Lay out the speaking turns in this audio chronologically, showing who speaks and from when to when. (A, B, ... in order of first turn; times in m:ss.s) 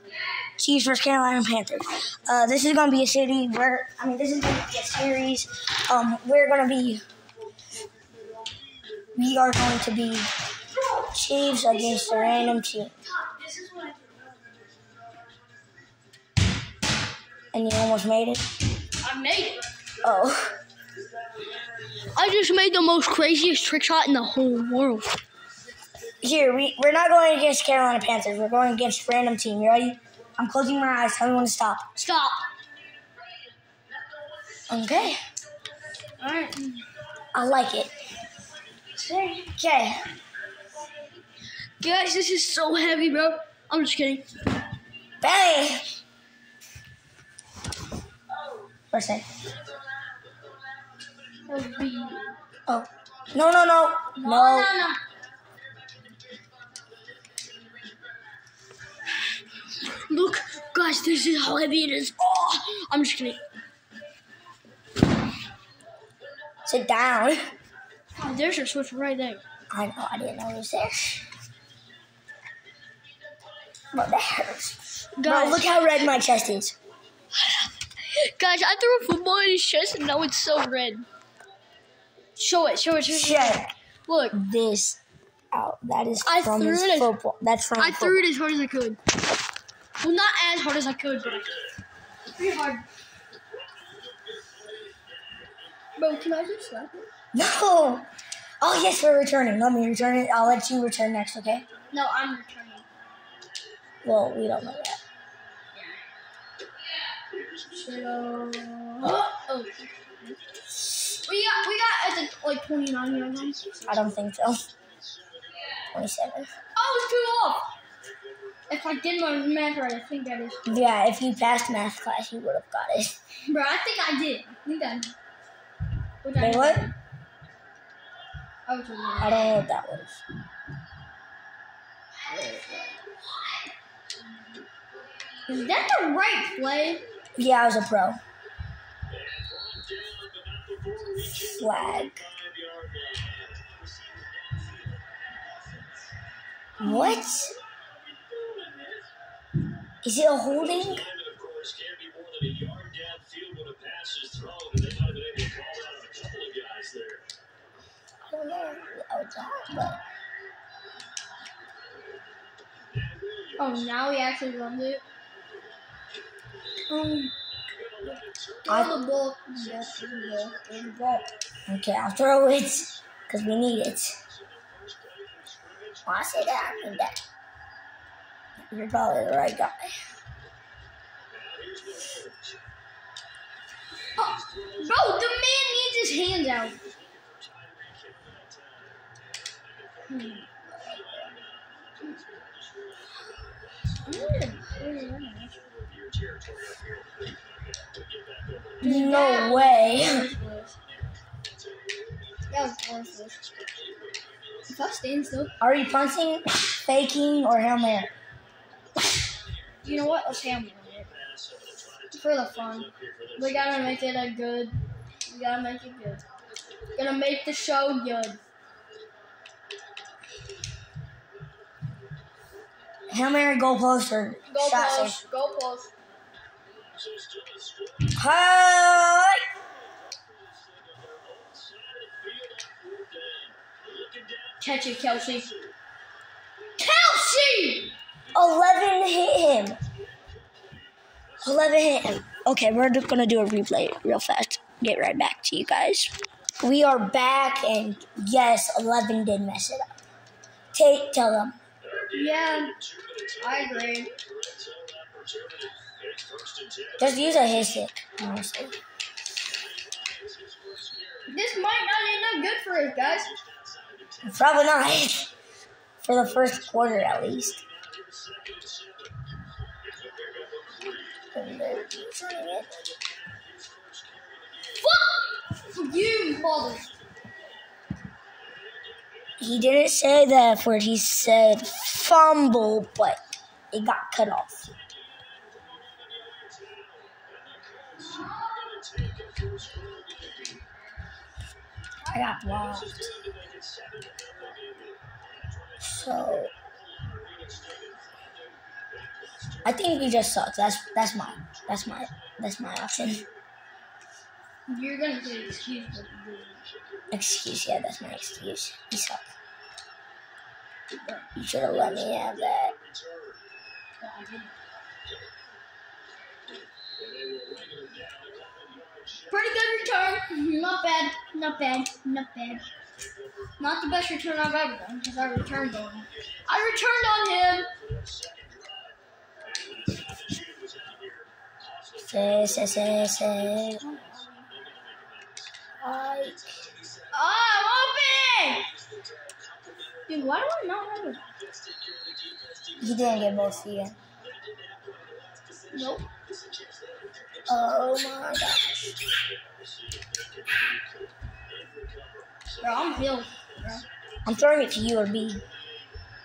0:00.6-0:07.0 A
0:09.2-0:10.3 A
0:10.9-0:13.0 A
0:11.6-0:14.2 B
0:17.5-0:18.4 A
0:19.0-0:19.6 B
0:20.0-0:20.5 A
0:22.1-0:25.2 B
0:26.2-0:31.9 A
0:32.0-0:32.5 B
0:34.7-0:35.2 A
0:36.2-0:36.8 B
0:37.3-0:37.9 A
0:39.0-0:40.1 A
0:41.8-0:44.3 B
0:45.2-0:46.0 A
0:48.9-0:49.3 A
0:51.5-0:52.3 B
0:52.7-0:54.8 A
0:54.2-0:55.0 B
0:59.9-1:03.4 B
1:06.6-1:07.4 A
1:08.2-1:09.4 B
1:09.7-1:11.3 A
1:13.9-1:16.8 A
1:15.2-1:15.7 B
1:17.3-1:21.1 B
1:22.4-1:24.4 B
1:23.1-1:23.7 A
1:24.3-1:25.0 A
1:25.5-1:28.2 A
1:26.2-1:27.2 B
1:27.8-1:29.0 B
1:30.0-1:31.6 B
1:32.3-1:32.8 B
1:36.0-1:37.1 B
1:37.3-1:38.1 A
1:38.6-1:41.6 A
1:41.9-1:42.8 B
1:44.0-1:45.0 A
1:45.7-1:46.0 B
1:47.7-1:50.4 B
1:51.2-1:54.2 B
1:53.9-1:54.6 A
1:55.9-1:56.5 A
1:56.8-1:57.7 B
1:58.7-2:00.6 B
2:00.7-2:03.1 A
2:03.5-2:05.1 B
2:06.2-2:06.9 B
2:06.4-2:06.9 A
2:08.7-2:09.6 B
2:09.2-2:10.2 A
2:12.3-2:12.6 B
2:15.5-2:17.0 B
2:17.4-2:18.2 A
2:21.4-2:22.3 A
2:26.8-2:27.5 A
2:26.8-2:27.3 B
2:30.0-2:31.1 A
2:38.3-2:40.0 A
2:43.6-2:45.0 B
2:46.9-2:47.3 A
2:48.7-2:51.3 B
2:48.7-2:48.9 A
2:51.7-2:54.2 A
2:56.1-2:57.2 A
2:58.6-2:59.9 A
3:04.2-3:06.8 B
3:10.1-3:10.5 B
3:14.0-3:15.6 B
3:18.8-3:20.7 B
3:18.8-3:20.3 A
3:22.5-3:23.5 B
3:24.7-3:25.5 B
3:25.6-3:28.1 A
3:29.8-3:31.1 B
3:32.1-3:36.2 B
3:37.0-3:38.4 B
3:43.1-3:45.2 A
3:44.5-3:45.9 B
3:48.1-3:49.4 A
3:54.6-3:55.5 B
3:56.8-3:57.9 B
3:58.3-3:59.8 A
4:01.4-4:10.0 A
4:10.7-4:11.6 A
4:12.1-4:12.8 B
4:13.4-4:14.1 B
4:17.0-4:18.8 A
4:21.3-4:23.3 B
4:24.3-4:25.3 A
4:26.0-4:27.6 A
4:31.3-4:32.7 A
4:34.8-4:36.9 B
4:39.4-4:43.2 A
4:43.7-4:44.7 A
4:52.0-4:52.9 A
4:55.8-4:56.5 A
4:59.6-5:03.2 A
5:04.7-5:06.6 B
5:07.1-5:09.2 A
5:11.4-5:12.8 A
5:14.0-5:14.5 B
5:19.3-5:22.6 B
5:23.6-5:27.7 B
5:32.0-5:33.8 A
5:33.8-5:34.5 B
5:35.8-5:36.5 A
5:37.1-5:38.7 B
5:40.1-5:41.2 B
5:42.8-5:44.0 A
5:45.7-5:46.1 B
5:47.5-5:48.9 A
5:52.6-5:53.8 B
5:54.2-5:55.4 A